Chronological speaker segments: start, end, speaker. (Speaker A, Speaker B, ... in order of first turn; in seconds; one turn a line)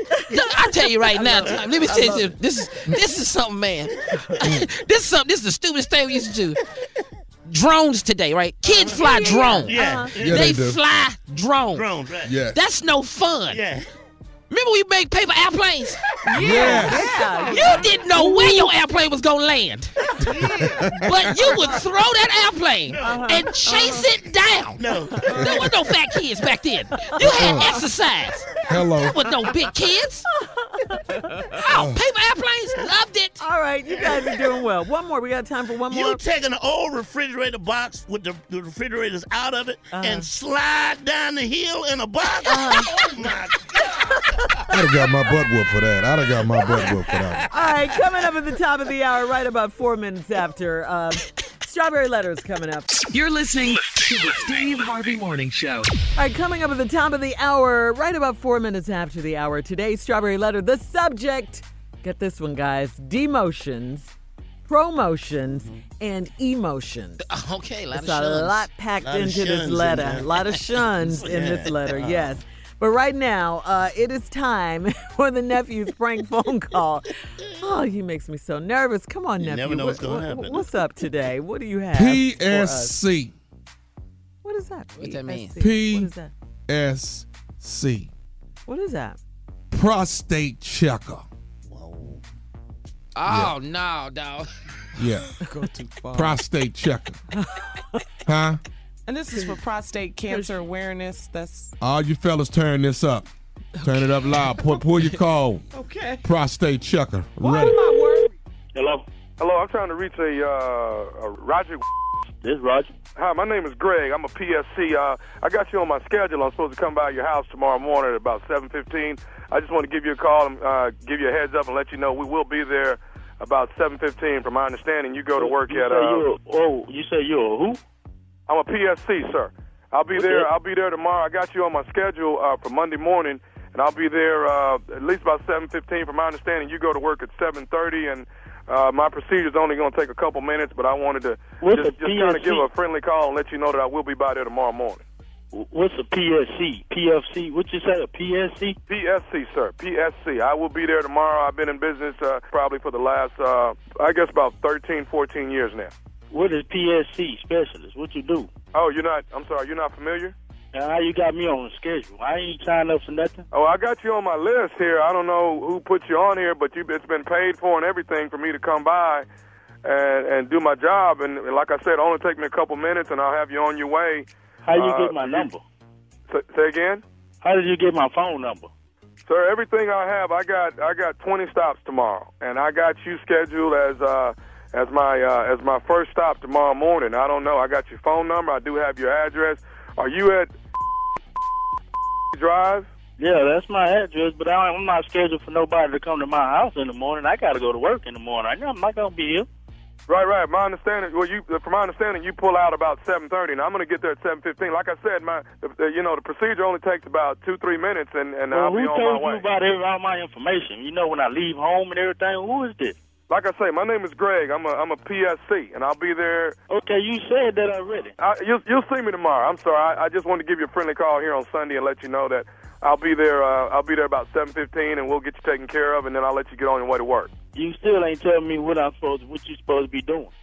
Speaker A: 0.3-6.6
Speaker B: 1.1-2.3
Speaker C: 1.2-2.2
Speaker A: 7.5-11.8
Speaker C: 8.6-9.0
Speaker B: 8.9-10.1
Speaker C: 9.7-10.5
Speaker D: 10.2-10.8
Speaker C: 11.7-12.3
Speaker D: 12.2-12.6
Speaker A: 12.5-13.6
Speaker C: 13.5-13.8
Speaker A: 14.5-16.0
Speaker B: 16.2-18.7
Speaker E: 16.3-18.3
Speaker D: 16.3-17.1
Speaker A: 17.5-19.9
Speaker E: 20.2-20.9
Speaker D: 20.4-21.2
Speaker A: 21.0-24.8
Speaker E: 21.4-21.8
Speaker C: 22.9-23.3
Speaker B: 23.0-24.0
Speaker E: 23.7-24.1
Speaker C: 24.8-25.7
Speaker A: 25.3-28.5
Speaker D: 25.4-25.6
Speaker B: 27.1-27.6
Speaker D: 27.2-27.8
Speaker D: 28.7-29.2
Speaker A: 29.1-30.2
Speaker B: 30.4-31.3
Speaker E: 31.1-31.6
Speaker A: 31.6-33.4
Speaker D: 31.7-32.0
Speaker B: 33.4-36.2
Speaker C: 33.9-34.4
Speaker C: 35.9-43.8
Speaker B: 39.9-40.3
Speaker B: 42.4-42.9
Speaker D: 44.7-47.5
Speaker B: 47.5-52.9
Speaker F: 53.1-55.9
Speaker B: 56.1-64.1
Speaker B: 64.7-67.2
Speaker C: 65.5-65.8
Speaker A: 67.2-68.7
Speaker B: 67.9-83.0
Speaker C: 69.0-70.4
Speaker C: 71.0-72.3
Speaker C: 79.4-80.7
Speaker D: 81.9-83.3
Speaker B: 84.4-86.3
Speaker A: 85.0-85.5
Speaker D: 85.6-86.1
Speaker D: 86.7-88.1
Speaker B: 88.7-89.2
Speaker D: 89.7-91.2
Speaker C: 91.7-92.2
Speaker A: 93.1-94.5
Speaker D: 93.2-93.5
Speaker D: 95.0-95.3
Speaker E: 95.4-96.4
Speaker D: 96.1-97.2
Speaker B: 97.3-98.0
Speaker D: 98.2-98.6
Speaker E: 99.0-101.7
Speaker B: 100.3-100.5
Speaker D: 101.8-103.2
Speaker E: 103.8-105.2
Speaker D: 103.8-105.6
Speaker E: 105.7-106.2
Speaker D: 106.2-107.9
Speaker E: 107.4-108.3
Speaker G: 108.7-109.0
Speaker H: 109.4-111.8
Speaker G: 112.4-112.9
Speaker H: 113.1-126.2
Speaker G: 125.4-127.8
Speaker H: 128.5-145.0
Speaker G: 130.1-130.4
Speaker G: 141.6-142.7
Speaker G: 145.5-148.8
Speaker H: 148.9-155.9
Speaker G: 156.3-158.5
Speaker H: 158.7-160.3
Speaker G: 160.7-163.4
Speaker H: 163.5-169.2
Speaker H: 169.8-175.5
Speaker G: 174.6-175.6
Speaker H: 176.3-177.0
Speaker G: 177.4-178.7
Speaker H: 179.3-190.5
Speaker H: 192.3-192.9
Speaker G: 193.2-199.5
Speaker H: 200.1-209.4
Speaker G: 208.5-212.9
Speaker H: 213.3-216.6
Speaker G: 216.7-218.1
Speaker H: 218.2-227.3
Speaker G: 227.5-230.3